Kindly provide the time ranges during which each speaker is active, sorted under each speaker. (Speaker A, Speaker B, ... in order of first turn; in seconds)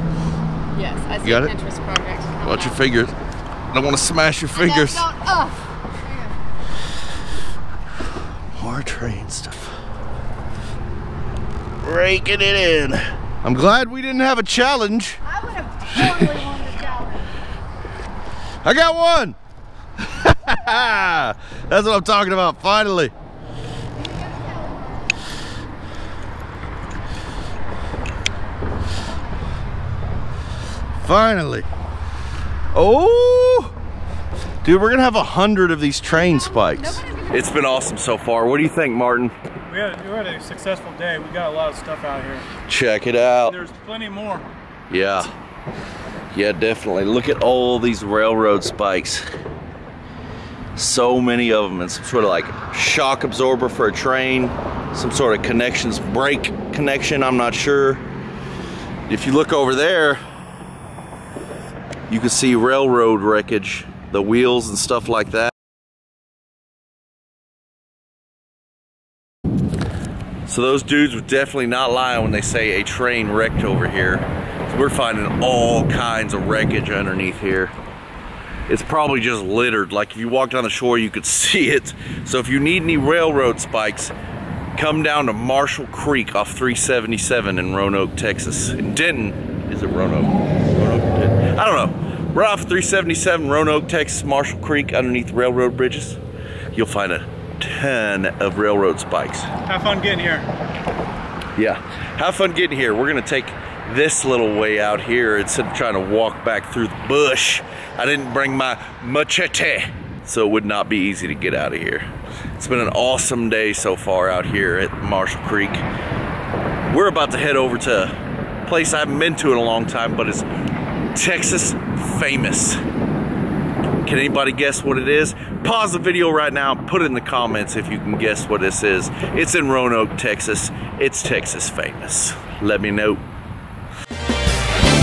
Speaker A: 0.7-2.8, 4.5-6.4, 15.2-17.4, 23.9-25.2, 28.9-29.8, 36.1-37.8
Speaker B: 1.2-1.5, 2.4-3.1, 3.7-5.1, 8.6-9.8, 11.8-15.2, 15.9-16.4, 18.6-19.4, 20.0-23.1, 31.0-31.7, 32.7-33.7, 34.6-39.3, 42.6-43.6, 44.9-45.3, 46.3-49.2, 50.8-58.0, 59.1-60.2, 62.1-65.5, 70.5-77.7, 78.7-84.2, 84.8-96.2, 96.7-99.5, 101.6-115.8, 116.9-118.1, 118.7-120.5, 121.2-122.8, 124.0-133.2
Speaker C: 39.7-42.5, 43.5-44.5, 99.7-100.5